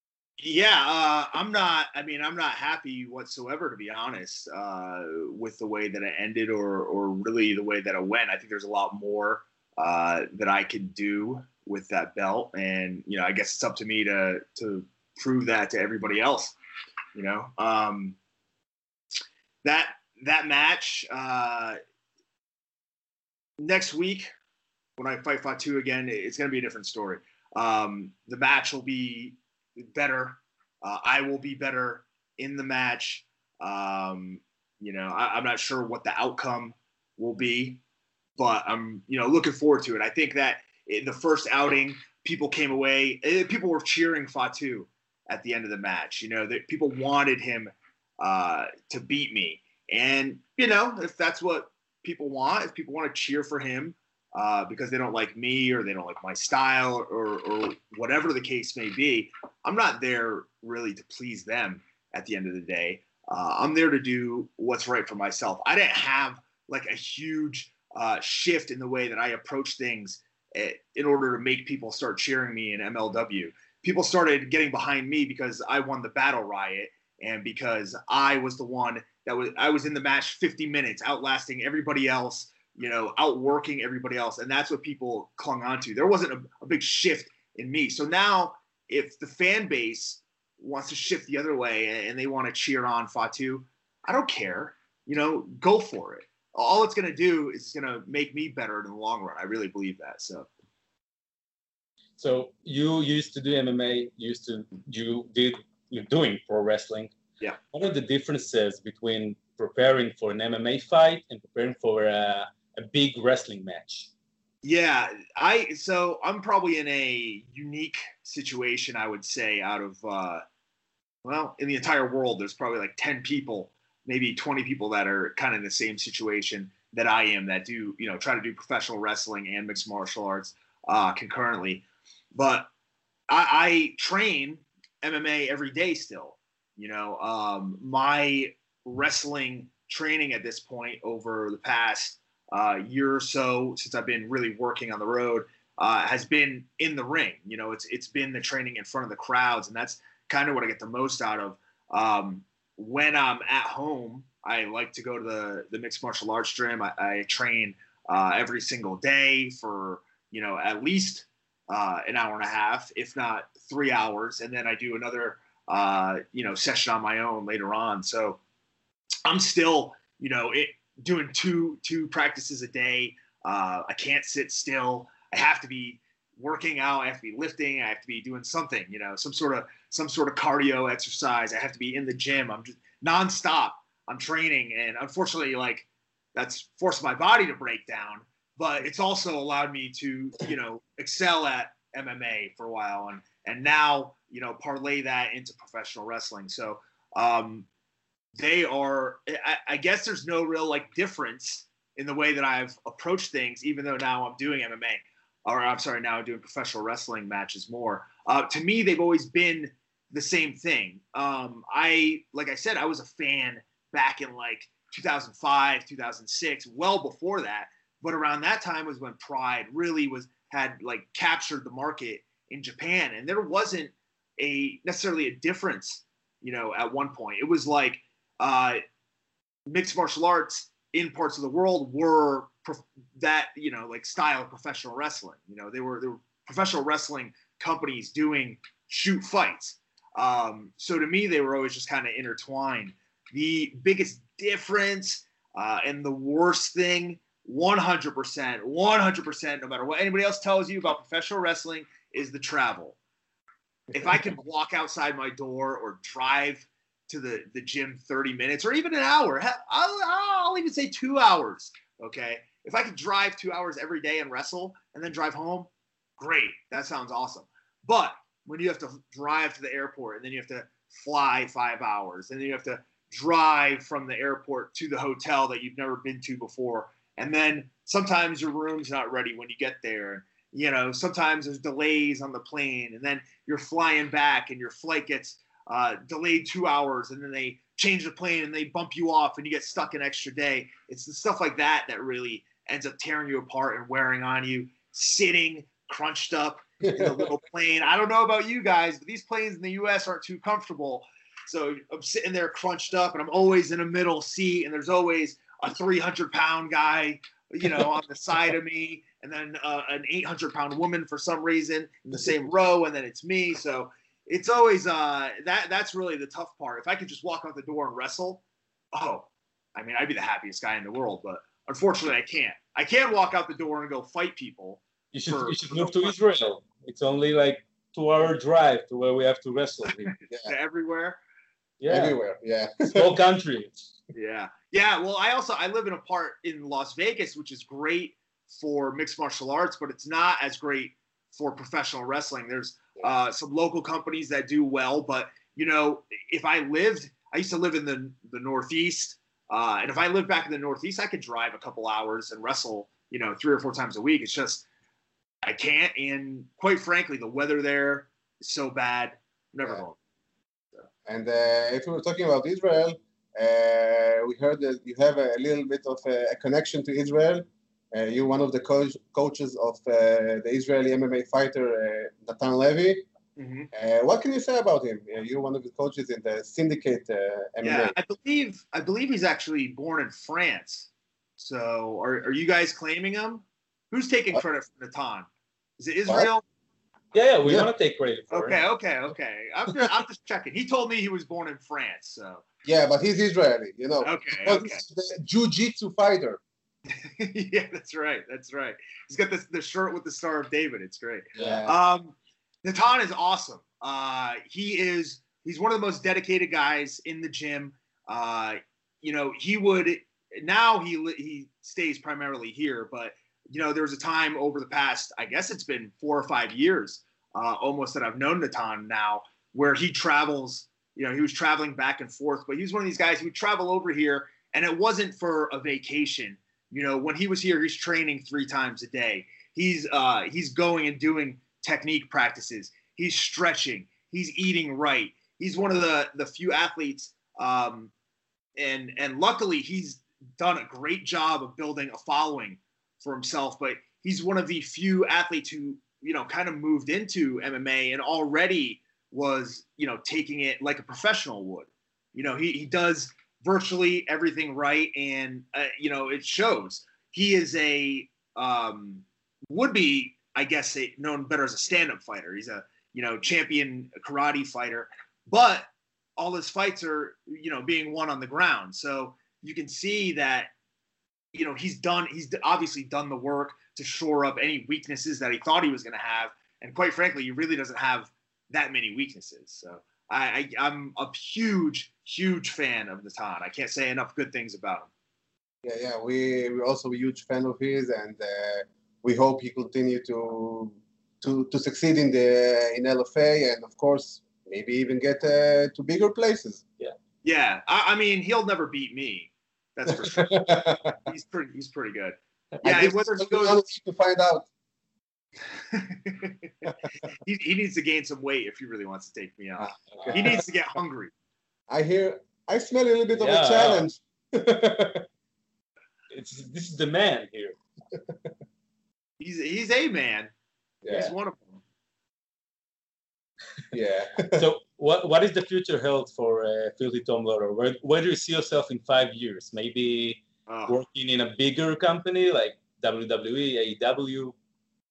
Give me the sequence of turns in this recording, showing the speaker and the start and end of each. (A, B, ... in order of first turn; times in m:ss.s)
0:00.4-0:16.5 A
0:17.1-0:18.2 A
0:19.6-0:21.8 A
0:23.6-0:24.3 A
0:25.0-0:37.8 A
0:38.4-1:40.5 A
1:42.2-1:47.1 B
1:47.7-1:54.1 B
1:54.6-2:00.4 A
2:01.2-2:11.8 A
2:12.3-2:12.7 A
2:13.3-2:48.4 A
2:49.2-3:17.7 A
3:18.4-3:48.8 A
3:49.7-4:13.0 A
4:13.9-4:14.2 C
4:13.9-5:18.4 A
4:56.9-4:57.3 C
5:18.9-5:26.2 A
5:25.1-5:30.1 B
5:30.1-5:31.2 A
5:30.3-5:30.5 C
5:31.8-5:32.2 B
5:31.9-5:33.2 C
5:32.9-5:33.8 B
5:34.1-5:54.6 A
5:55.4-6:00.0 A
6:01.0-6:13.0 C
6:13.4-6:13.7 A
6:13.7-6:17.9 C
6:17.6-6:25.3 A
6:25.8-6:26.4 A
6:27.1-6:28.6 B
6:28.3-6:32.4 A
6:32.6-6:36.4 C
6:34.0-6:34.8 A
6:37.0-7:17.9 A
6:41.4-6:41.7 C
7:18.6-7:50.5 A
7:51.3-8:04.9 A
8:05.6-8:16.6 C
8:17.2-8:23.6 A
8:19.9-8:21.0 C
8:22.6-8:24.4 C
8:25.7-8:31.1 A
8:29.6-8:30.4 C
8:31.7-8:35.0 C
8:33.1-8:33.9 B
8:36.1-8:37.5 B
8:39.2-8:40.3 A
8:40.8-8:41.1 C
8:40.9-8:41.6 A
8:43.7-8:44.4 C
8:44.4-8:54.3 B
8:50.5-8:50.8 A